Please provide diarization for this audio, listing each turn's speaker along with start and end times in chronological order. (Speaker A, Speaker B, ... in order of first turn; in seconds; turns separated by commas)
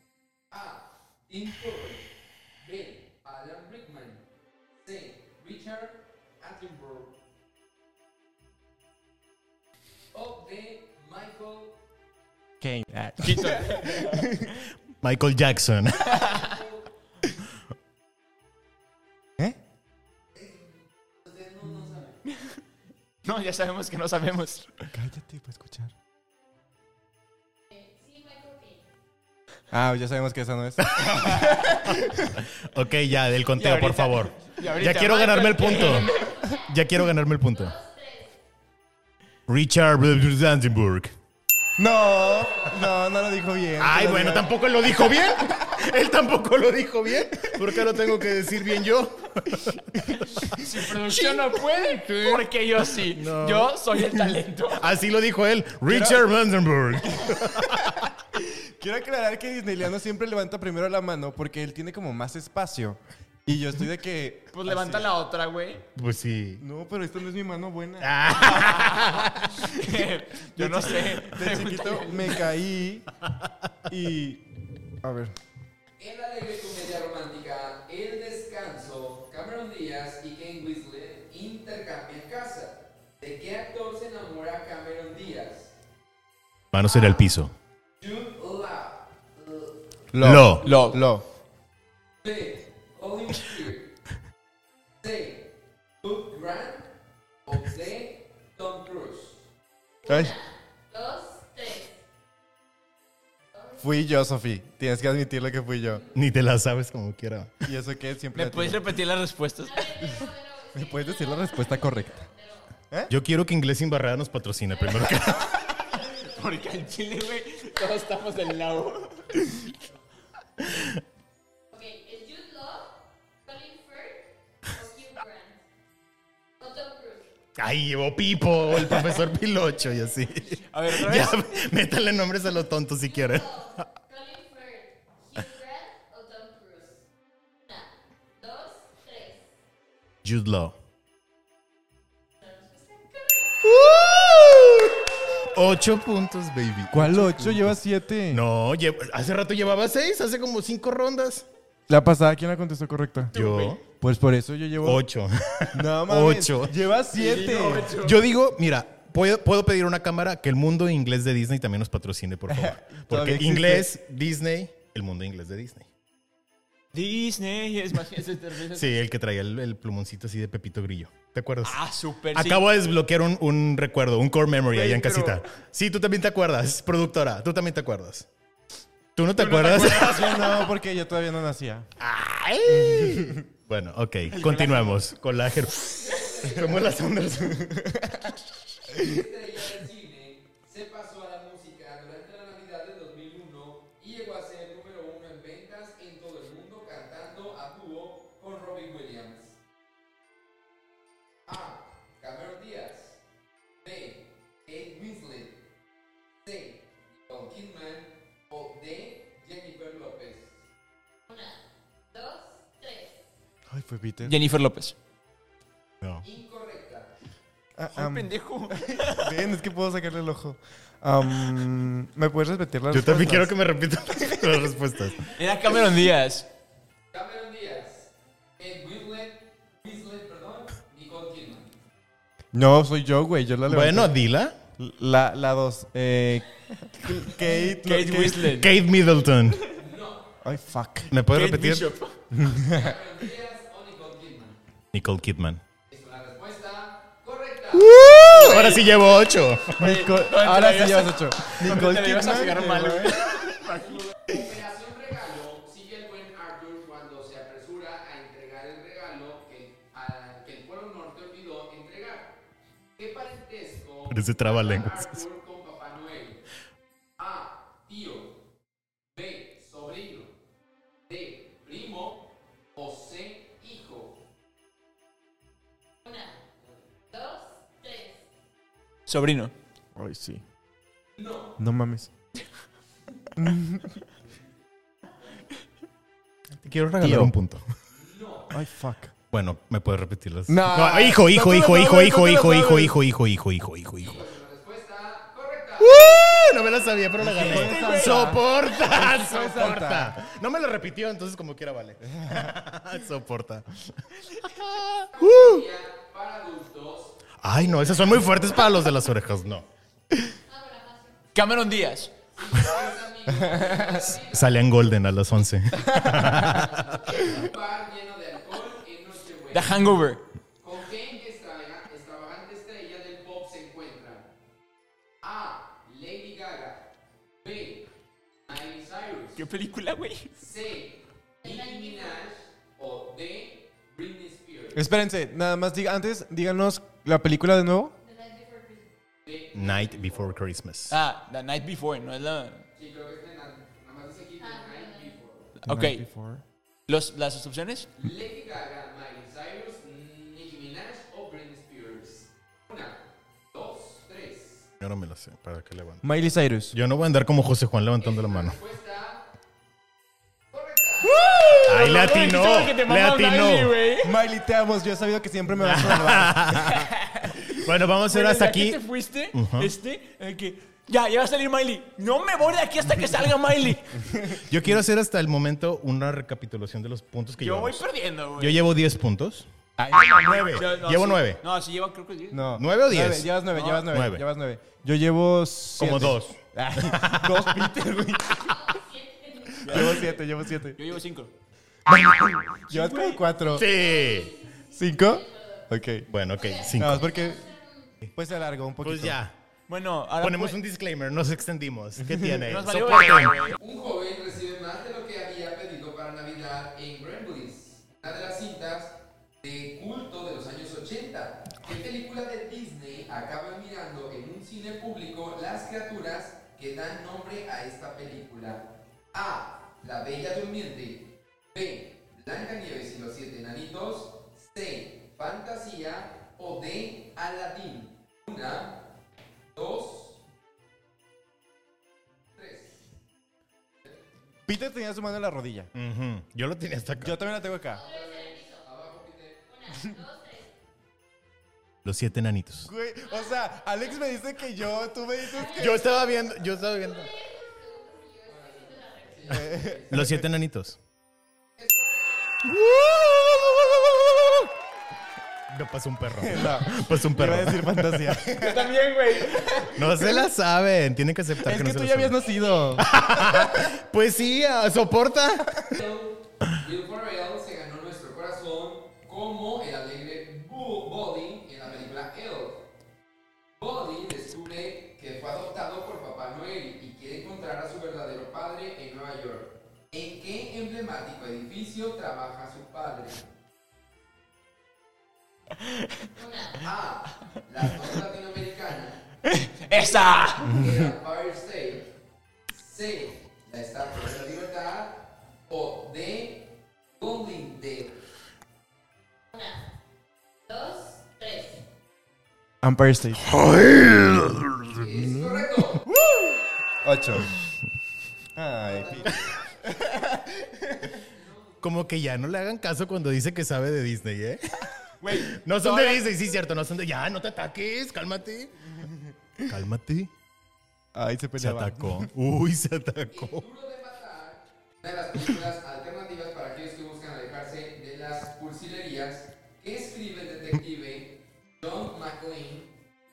Speaker A: 0.5-4.2, Speaker A: 4.8-7.2, Speaker A: 10.1-11.8, Speaker B: 12.6-14.5, Speaker C: 13.2-14.5, Speaker D: 15.0-16.2, Speaker C: 16.0-16.5, Speaker A: 16.1-16.9, Speaker A: 20.4-20.7, Speaker A: 21.2-22.2, Speaker C: 22.3-22.6, Speaker C: 23.2-24.7, Speaker B: 24.9-25.9, Speaker E: 27.7-28.9, Speaker B: 29.7-32.4, Speaker D: 30.8-37.7, Speaker C: 33.6-36.4, Speaker E: 35.8-36.8, Speaker E: 37.5-38.4, Speaker D: 39.5-41.1, Speaker B: 41.8-45.8, Speaker D: 43.8-50.5, Speaker B: 47.4-47.8, Speaker C: 50.5-54.9, Speaker D: 53.1-58.0, Speaker B: 55.9-56.3, Speaker B: 57.0-65.1, Speaker C: 64.5-65.8, Speaker D: 66.0-66.6, Speaker B: 66.6-68.2, Speaker D: 68.0-69.6, Speaker C: 68.4-72.5, Speaker B: 70.6-73.1, Speaker B: 73.9-74.4, Speaker B: 75.0-75.3, Speaker A: 76.0-85.8, Speaker D: 86.7-87.5, Speaker A: 86.9-87.2, Speaker A: 88.0-89.7, Speaker B: 90.1-91.2, Speaker D: 90.2-90.7, Speaker C: 90.6-91.0, Speaker A: 92.2-93.9, Speaker A: 95.0-95.5, Speaker A: 96.0-96.9, Speaker A: 97.5-99.5, Speaker E: 100.0-102.0, Speaker B: 100.1-100.3, Speaker E: 103.5-103.8, Speaker B: 103.8-106.0, Speaker D: 106.1-107.6, Speaker B: 107.6-109.0, Speaker C: 108.3-110.1, Speaker E: 109.6-112.7, Speaker B: 110.8-112.2, Speaker D: 113.1-115.6, Speaker E: 114.7-116.7, Speaker C: 115.9-119.7, Speaker D: 120.6-121.0, Speaker E: 121.7-122.9, Speaker E: 123.5-125.6, Speaker E: 126.6-127.3, Speaker D: 127.6-133.5, Speaker C: 130.7-131.5, Speaker E: 133.0-137.0, Speaker E: 137.7-139.4, Speaker D: 140.2-140.8, Speaker E: 142.4-143.7, Speaker D: 143.6-147.8, Speaker B: 146.9-148.4, Speaker D: 148.3-151.5, Speaker B: 151.9-153.3, Speaker C: 153.3-153.8, Speaker D: 153.3-153.8, Speaker B: 154.0-155.1, Speaker D: 154.8-156.7, Speaker B: 155.7-157.9, Speaker C: 157.1-158.2, Speaker D: 157.9-165.9, Speaker B: 162.5-163.9, Speaker C: 166.9-169.0, Speaker D: 168.7-171.8, Speaker C: 171.6-172.6, Speaker D: 172.3-178.3, Speaker C: 174.7-175.4, Speaker D: 179.2-180.4, Speaker C: 179.4-180.7, Speaker B: 179.8-181.9, Speaker D: 182.0-187.7, Speaker B: 182.7-183.4, Speaker C: 184.3-185.0, Speaker A: 185.8-187.2, Speaker B: 187.5-188.4, Speaker A: 188.9-199.6, Speaker A: 201.5-203.2, Speaker A: 203.8-205.6, Speaker A: 206.4-210.6, Speaker E: 211.3-211.6, Speaker E: 212.1-213.2, Speaker B: 213.7-214.4, Speaker C: 214.2-214.9, Speaker A: 216.2-217.1, Speaker B: 217.8-223.6, Speaker C: 217.9-219.4, Speaker D: 222.9-225.3, Speaker B: 224.1-224.6, Speaker C: 225.3-226.5, Speaker A: 227.1-231.7, Speaker B: 232.5-234.2, Speaker D: 233.7-234.6, Speaker B: 234.8-238.6, Speaker C: 237.4-238.7, Speaker D: 238.5-239.6, Speaker A: 239.7-240.3, Speaker B: 240.4-241.1, Speaker D: 241.1-241.9, Speaker C: 241.3-242.2, Speaker B: 242.3-243.0, Speaker A: 242.4-244.6, Speaker D: 244.9-245.6, Speaker A: 245.9-248.9, Speaker D: 247.7-249.9, Speaker C: 248.3-248.9, Speaker C: 249.7-254.1, Speaker B: 249.8-253.4, Speaker A: 254.2-262.4, Speaker A: 263.0-266.4, Speaker D: 264.1-265.2, Speaker A: 267.2-268.4, Speaker A: 269.1-270.3, Speaker A: 271.1-274.2, Speaker E: 276.0-276.4, Speaker E: 277.1-278.2, Speaker C: 279.1-279.5, Speaker B: 280.0-280.4, Speaker A: 281.2-281.6, Speaker B: 281.6-282.1, Speaker B: 283.4-284.0, Speaker D: 286.6-287.6, Speaker B: 287.0-287.4, Speaker A: 287.9-288.6, Speaker B: 288.5-289.1, Speaker D: 289.3-294.3, Speaker B: 290.5-293.0, Speaker A: 294.0-296.6, Speaker D: 295.8-305.6, Speaker B: 297.2-300.2, Speaker C: 297.4-298.4, Speaker B: 302.2-302.5, Speaker A: 305.1-308.4, Speaker D: 307.4-309.7, Speaker E: 310.3-311.2, Speaker C: 311.4-312.1, Speaker A: 312.4-314.6, Speaker B: 313.4-314.1, Speaker D: 314.3-316.9, Speaker B: 315.8-316.7, Speaker A: 316.4-320.0, Speaker C: 319.5-320.2, Speaker A: 320.6-324.3, Speaker A: 325.2-326.8, Speaker A: 327.4-327.9, Speaker A: 328.5-329.4, Speaker C: 329.4-330.4, Speaker A: 330.4-334.8, Speaker E: 331.4-332.2, Speaker B: 334.8-337.9, Speaker E: 338.0-338.9, Speaker A: 339.2-340.3, Speaker D: 339.6-341.0, Speaker C: 340.9-342.6, Speaker A: 342.8-345.6, Speaker E: 344.4-345.1, Speaker C: 345.6-346.0, Speaker B: 345.7-346.4, Speaker C: 346.9-347.9, Speaker A: 348.0-353.0, Speaker A: 353.5-354.7, Speaker D: 354.8-356.1, Speaker B: 356.0-356.8, Speaker D: 356.7-358.6, Speaker A: 358.0-359.2, Speaker A: 360.5-361.2, Speaker C: 361.0-364.2, Speaker D: 361.6-363.7, Speaker B: 364.0-366.6, Speaker D: 365.6-366.9, Speaker C: 366.5-374.3, Speaker D: 367.5-368.8, Speaker D: 369.3-369.7, Speaker D: 374.4-377.8, Speaker C: 377.4-378.6, Speaker D: 378.4-379.5, Speaker B: 379.8-380.7, Speaker D: 380.1-381.4, Speaker C: 380.5-382.5, Speaker B: 382.3-388.7, Speaker D: 382.6-384.2, Speaker C: 383.5-383.9, Speaker D: 385.8-387.7, Speaker E: 388.2-389.8, Speaker B: 389.6-390.8, Speaker C: 389.6-390.2, Speaker C: 390.8-391.3, Speaker B: 391.9-393.7, Speaker C: 392.7-393.2, Speaker E: 393.5-395.7, Speaker D: 393.5-394.3, Speaker B: 394.7-396.1, Speaker D: 396.1-397.1, Speaker E: 396.4-398.0, Speaker B: 396.8-397.4, Speaker B: 398.1-399.2, Speaker D: 398.8-399.4, Speaker C: 399.7-400.6, Speaker D: 400.2-403.4, Speaker C: 402.4-403.6, Speaker A: 403.6-428.8, Speaker A: 429.5-430.2, Speaker A: 432.3-432.8, Speaker B: 434.5-435.7, Speaker D: 435.7-437.2, Speaker B: 437.0-437.8, Speaker E: 437.7-438.7, Speaker A: 437.7-439.4, Speaker E: 439.5-440.5, Speaker D: 441.8-442.7, Speaker B: 442.6-446.0, Speaker E: 443.1-443.4, Speaker E: 445.3-449.5, Speaker D: 445.5-447.1, Speaker A: 448.3-450.1, Speaker B: 449.3-450.2, Speaker D: 449.9-450.8, Speaker A: 451.6-452.4, Speaker D: 452.5-454.5, Speaker D: 455.5-458.2, Speaker B: 456.2-458.8, Speaker E: 456.4-456.9, Speaker C: 458.3-460.1, Speaker D: 459.7-462.2, Speaker B: 461.4-463.7, Speaker E: 462.2-462.8, Speaker D: 462.8-465.8, Speaker A: 465.8-472.6, Speaker A: 473.6-483.2, Speaker E: 486.1-486.6, Speaker A: 486.6-489.0, Speaker C: 489.3-490.6, Speaker A: 490.4-491.9, Speaker B: 490.4-490.9, Speaker A: 492.5-496.5, Speaker A: 497.0-498.0, Speaker E: 499.3-499.6, Speaker E: 500.5-501.6, Speaker B: 502.6-503.4, Speaker D: 503.3-504.8, Speaker A: 504.7-505.9, Speaker B: 504.9-505.5, Speaker B: 506.8-507.3, Speaker B: 508.4-511.0, Speaker A: 508.7-509.4, Speaker A: 510.9-511.6, Speaker D: 511.6-518.9, Speaker C: 515.0-516.1, Speaker D: 519.5-520.1, Speaker B: 520.9-522.1, Speaker D: 521.4-523.4, Speaker A: 523.1-532.7